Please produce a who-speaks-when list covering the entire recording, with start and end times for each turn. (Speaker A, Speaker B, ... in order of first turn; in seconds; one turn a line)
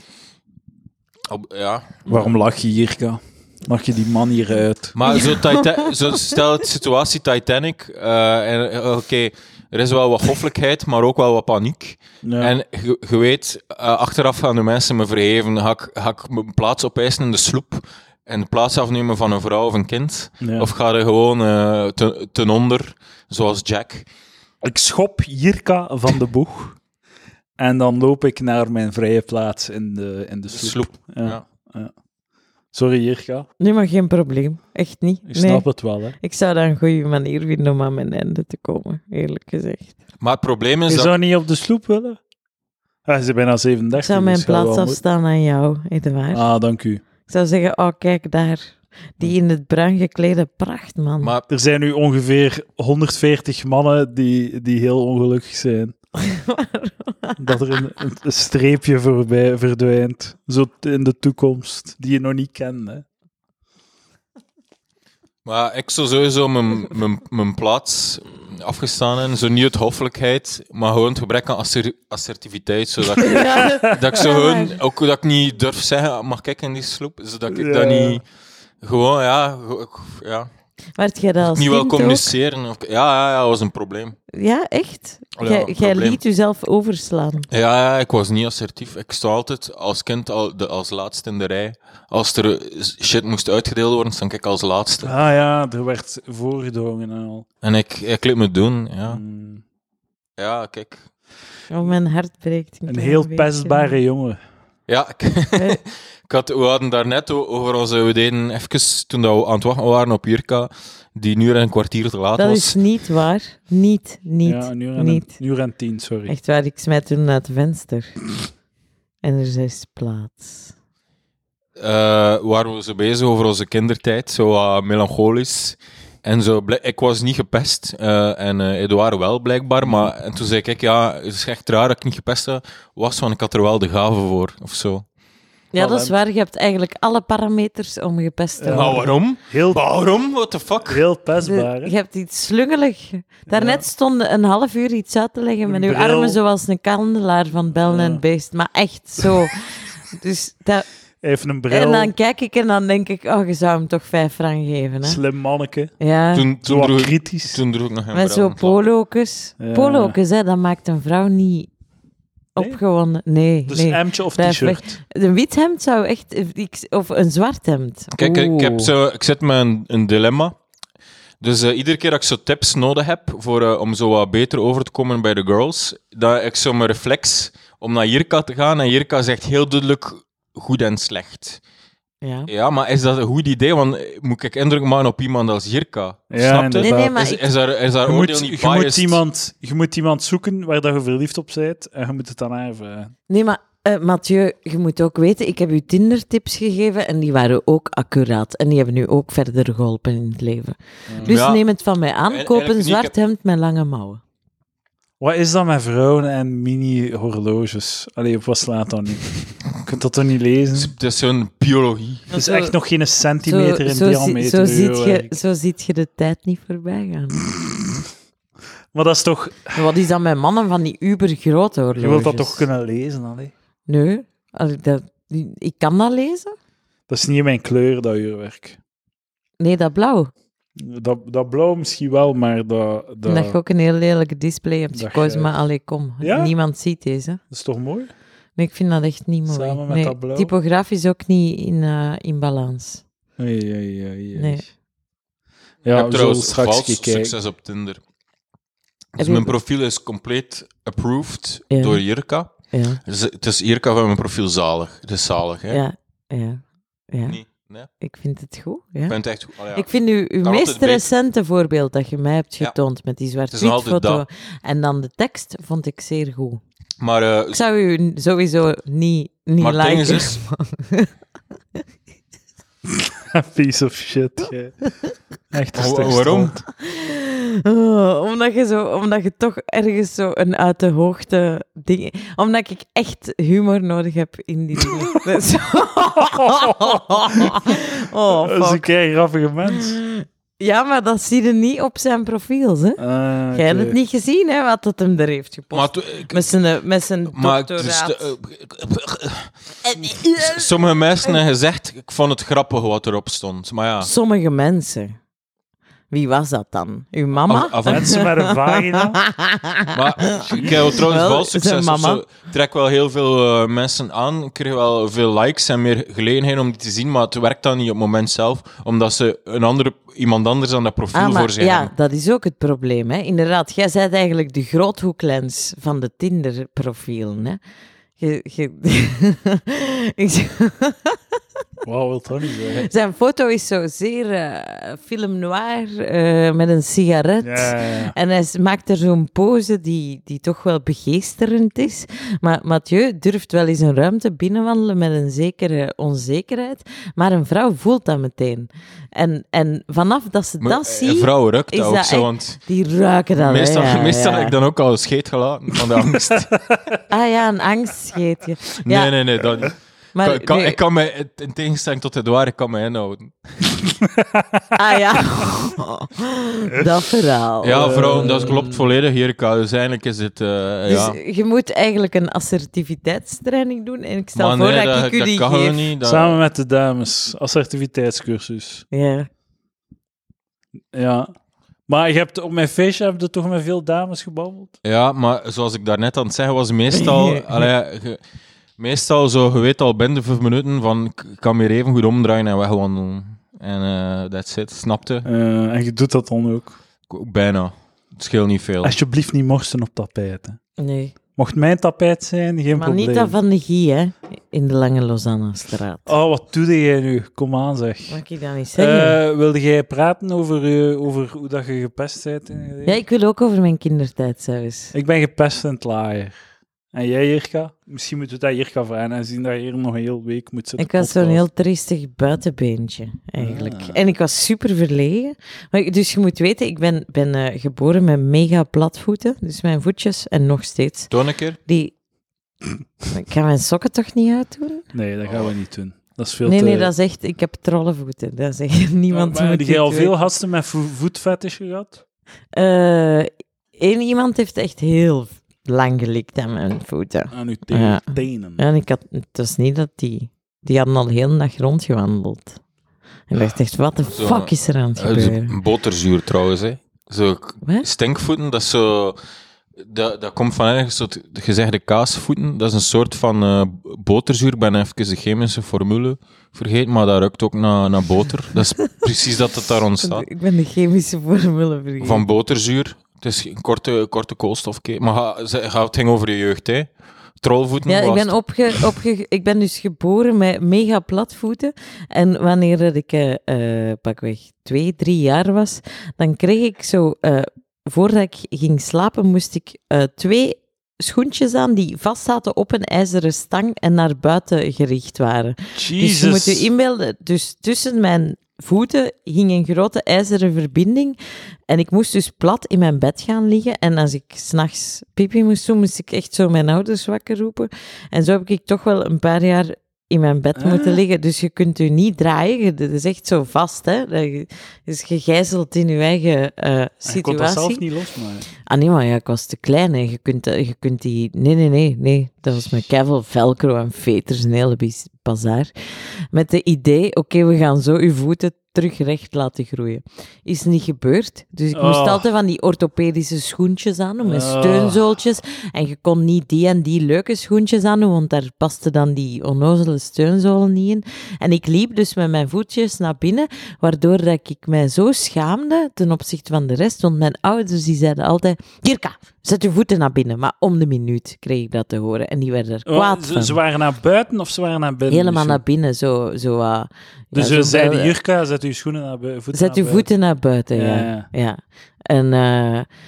Speaker A: 1.2-2.0
Speaker B: 2.1-5.0
Speaker A: 4.9-24.1
Speaker C: 5.1-6.3
Speaker B: 12.2-12.5
Speaker B: 20.4-20.7
Speaker B: 24.6-26.8
Speaker B: 27.6-31.9
Speaker A: 30.5-31.4
Speaker B: 32.7-33.5
Speaker C: 33.6-35.7
Speaker B: 35.3-36.1
Speaker C: 36.2-39.9
Speaker A: 40.2-41.1
Speaker B: 40.9-42.2
Speaker B: 43.0-45.0
Speaker C: 44.0-46.4
Speaker B: 46.3-47.0
Speaker C: 47.3-51.3
Speaker A: 51.2-51.5
Speaker B: 51.5-55.9
Speaker C: 56.2-57.4
Speaker B: 57.4-63.0
Speaker A: 65.4-78.2
Speaker C: 73.2-74.8
Speaker B: 77.5-78.2
Speaker A: 78.8-80.5
Speaker C: 81.0-82.3
Speaker A: 81.4-84.2
Speaker C: 84.3-87.5
Speaker A: 85.4-86.2
Speaker A: 87.5-95.1
Speaker B: 95.0-97.4
Speaker A: 97.6-99.2
Speaker B: 99.1-99.6
Speaker A: 100.4-101.0
Speaker C: 101.7-104.0
Speaker B: 102.9-104.4
Speaker A: 104.9-112.8
Speaker C: 112.4-115.4
Speaker B: 114.4-116.3
Speaker C: 116.3-118.1
Speaker C: 119.2-120.7
Speaker A: 121.8-135.1
Speaker B: 129.8-130.1
Speaker C: 135.7-139.1
Speaker B: 135.8-136.2
Speaker B: 138.6-139.8
Speaker A: 138.7-141.0
Speaker B: 140.9-141.9
Speaker C: 141.4-150.9
Speaker B: 143.5-143.8
Speaker B: 145.7-146.4
Speaker B: 147.9-148.2
Speaker B: 151.2-152.1
Speaker C: 151.7-155.2
Speaker B: 155.0-155.9
Speaker C: 156.0-156.5
Speaker A: 156.3-158.8
Speaker B: 156.6-157.6
Speaker C: 158.1-161.7
Speaker B: 159.6-160.2
Speaker C: 162.5-168.9
Speaker B: 163.7-165.0
Speaker A: 168.1-170.6
Speaker A: 171.4-181.6
Speaker C: 182.2-182.5
Speaker A: 182.5-189.2
Speaker B: 186.3-187.1
Speaker C: 186.8-187.5
Speaker B: 188.0-193.1
Speaker C: 193.3-204.2
Speaker B: 201.1-201.3
Speaker A: 201.2-201.6
Speaker A: 202.3-203.1
Speaker B: 205.2-210.9
Speaker A: 210.7-212.3
Speaker C: 212.3-212.7
Speaker B: 212.3-215.3
Speaker C: 213.4-217.4
Speaker B: 218.9-219.8
Speaker C: 219.7-222.7
Speaker B: 221.9-223.5
Speaker C: 223.9-226.5
Speaker B: 227.1-228.8
Speaker C: 229.6-230.3
Speaker B: 230.8-233.6
Speaker C: 233.2-237.4
Speaker B: 234.9-235.5
Speaker B: 236.2-236.5
Speaker B: 237.5-238.1
Speaker C: 238.6-243.0
Speaker B: 239.5-240.5
Speaker B: 243.4-244.6
Speaker C: 244.3-244.7
Speaker B: 245.8-247.3
Speaker A: 245.9-248.0
Speaker A: 249.2-252.5
Speaker C: 249.2-249.5
Speaker C: 251.7-252.0
Speaker C: 252.7-253.0
Speaker A: 253.0-255.8
Speaker C: 255.7-257.4
Speaker A: 257.2-257.9
Speaker C: 258.0-259.2
Speaker A: 259.1-259.9
Speaker C: 259.7-266.6
Speaker A: 260.4-261.0
Speaker A: 263.5-264.2
Speaker A: 267.0-267.6
Speaker C: 267.5-271.1
Speaker A: 269.6-270.4
Speaker B: 272.9-274.9
Speaker B: 275.5-276.6
Speaker A: 275.7-276.6
Speaker C: 276.8-288.9
Speaker B: 286.4-287.6
Speaker B: 288.3-290.0
Speaker C: 289.7-293.0
Speaker B: 293.0-294.0
Speaker C: 293.5-298.3
Speaker A: 295.7-296.5
Speaker A: 297.3-304.1
Speaker C: 299.9-300.6
Speaker C: 304.0-305.1
Speaker C: 306.1-312.2
Speaker A: 307.5-308.2
Speaker B: 307.8-309.2
Speaker A: 309.9-321.9
Speaker B: 310.5-310.9
Speaker C: 321.1-327.6
Speaker C: 328.2-331.2
Speaker B: 331.8-332.9
Speaker C: 332.7-354.6
Speaker B: 337.4-338.1
Speaker A: 350.6-352.6
Speaker A: 353.4-356.6
Speaker C: 357.1-359.1
Speaker A: 358.8-363.7
Speaker C: 360.1-360.8
Speaker B: 364.1-364.6
Speaker C: 364.7-368.7
Speaker A: 367.6-371.2
Speaker B: 367.7-368.6
Speaker C: 370.9-375.9
Speaker A: 374.3-376.4
Speaker B: 376.0-378.9
Speaker C: 378.9-379.3
Speaker B: 380.9-381.3
Speaker B: 381.9-384.7
Speaker A: 384.8-388.2
Speaker C: 386.9-387.6
Speaker A: 388.8-395.3
Speaker B: 395.2-396.8
Speaker A: 397.1-398.9
Speaker B: 398.8-400.6
Speaker C: 400.8-401.1
Speaker B: 401.4-403.4
Speaker C: 402.8-406.1
Speaker B: 406.1-408.2
Speaker C: 408.1-409.2
Speaker B: 408.8-413.0
Speaker C: 412.8-414.9
Speaker B: 414.9-416.3
Speaker B: 416.9-421.4
Speaker C: 420.8-431.1
Speaker B: 423.4-424.0
Speaker A: 431.1-431.6
Speaker C: 431.6-431.9
Speaker C: 433.1-434.8
Speaker B: 434.9-436.9
Speaker C: 436.4-440.1
Speaker B: 439.1-442.0
Speaker C: 442.5-452.6
Speaker B: 447.3-448.6
Speaker C: 453.3-455.5
Speaker A: 454.1-459.2
Speaker C: 457.6-457.9
Speaker A: 459.8-470.2
Speaker C: 470.0-472.2
Speaker A: 472.0-476.9
Speaker A: 477.4-478.3
Speaker C: 477.9-501.1
Speaker B: 495.8-496.7
Speaker C: 501.7-517.8
Speaker B: 510.6-511.0
Speaker B: 517.0-518.5
Speaker C: 518.6-525.7
Speaker C: 526.3-553.6
Speaker B: 531.7-532.3
Speaker B: 534.2-535.0
Speaker B: 552.9-555.6
Speaker C: 555.1-558.1
Speaker B: 557.3-560.1
Speaker C: 559.5-562.9
Speaker B: 560.7-561.3